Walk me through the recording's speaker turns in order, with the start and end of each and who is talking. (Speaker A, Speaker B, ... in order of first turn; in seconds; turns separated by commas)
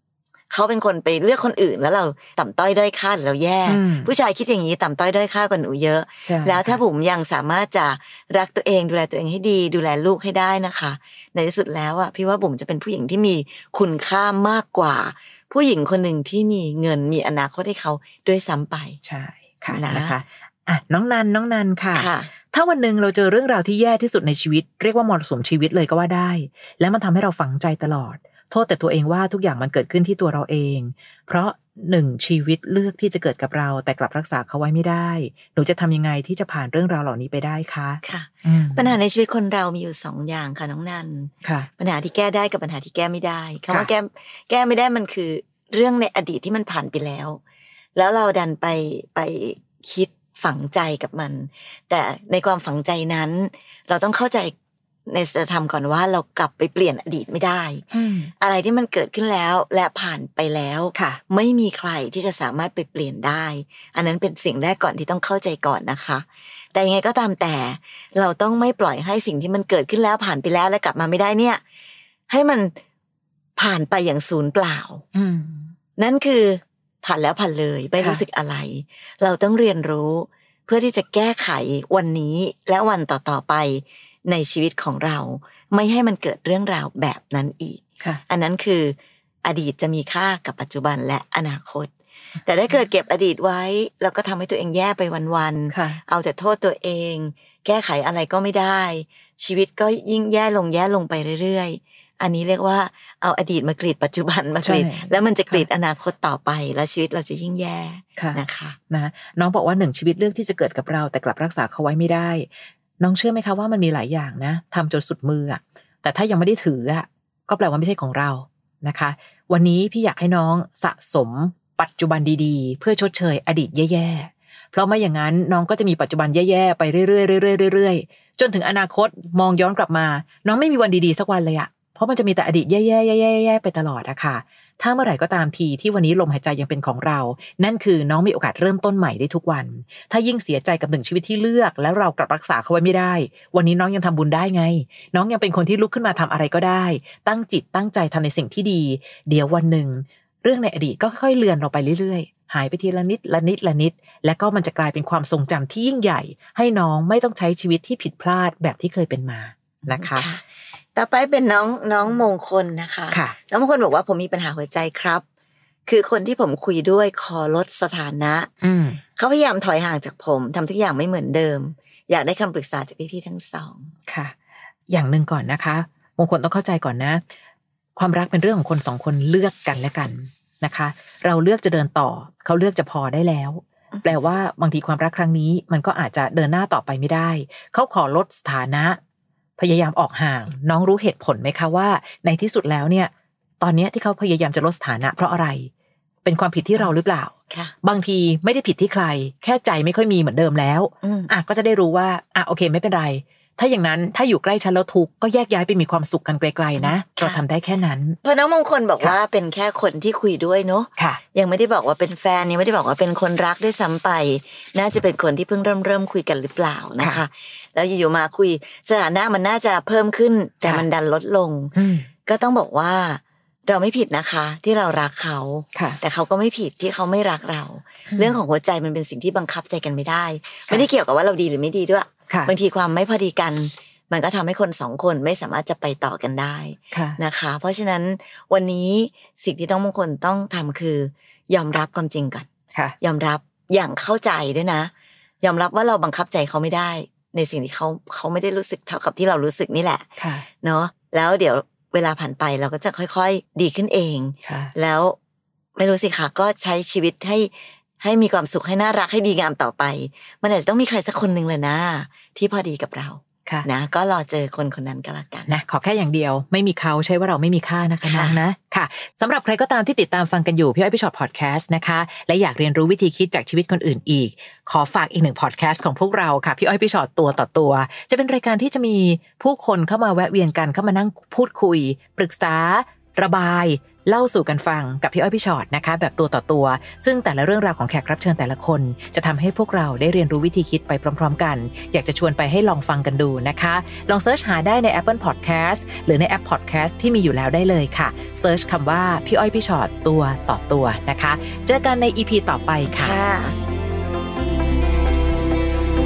Speaker A: 0.5-19.0, Speaker B: 3.7-4.1, Speaker B: 6.2-6.8, Speaker B: 19.0-39.0, Speaker A: 19.7-20.1, Speaker A: 21.9-22.3, Speaker A: 38.0-47.4, Speaker B: 41.4-41.7, Speaker A: 48.0-54.5, Speaker A: 55.1-71.6, Speaker B: 57.9-58.3, Speaker B: 60.9-61.2, Speaker A: 72.3-72.7, Speaker A: 73.6-75.0, Speaker B: 75.1-75.7, Speaker A: 76.0-91.9, Speaker A: 92.4-108.8, Speaker B: 95.7-96.0, Speaker B: 104.6-105.6, Speaker B: 108.2-112.5, Speaker B: 113.0-160.2, Speaker A: 159.8-160.4, Speaker A: 160.9-165.2, Speaker A: 165.9-168.5, Speaker B: 168.6-169.0, Speaker A: 169.2-173.9, Speaker B: 174.1-174.3, Speaker B: 174.9-177.2, Speaker B: 178.0-189.0, Speaker A: 183.9-184.2, Speaker B: 189.6-195.7, Speaker B: 196.2-208.2, Speaker A: 201.0-201.3, Speaker A: 206.8-207.4, Speaker A: 208.2-221.7, Speaker B: 221.7-222.1, Speaker A: 222.3-242.5, Speaker B: 228.1-228.3, Speaker B: 236.9-237.2, Speaker A: 243.0-244.9, Speaker A: 245.4-250.1, Speaker B: 250.2-250.4, Speaker A: 250.6-255.2, Speaker B: 254.4-254.7, Speaker A: 255.8-265.5, Speaker B: 265.5-303.2, Speaker A: 268.0-268.4, Speaker A: 302.9-303.6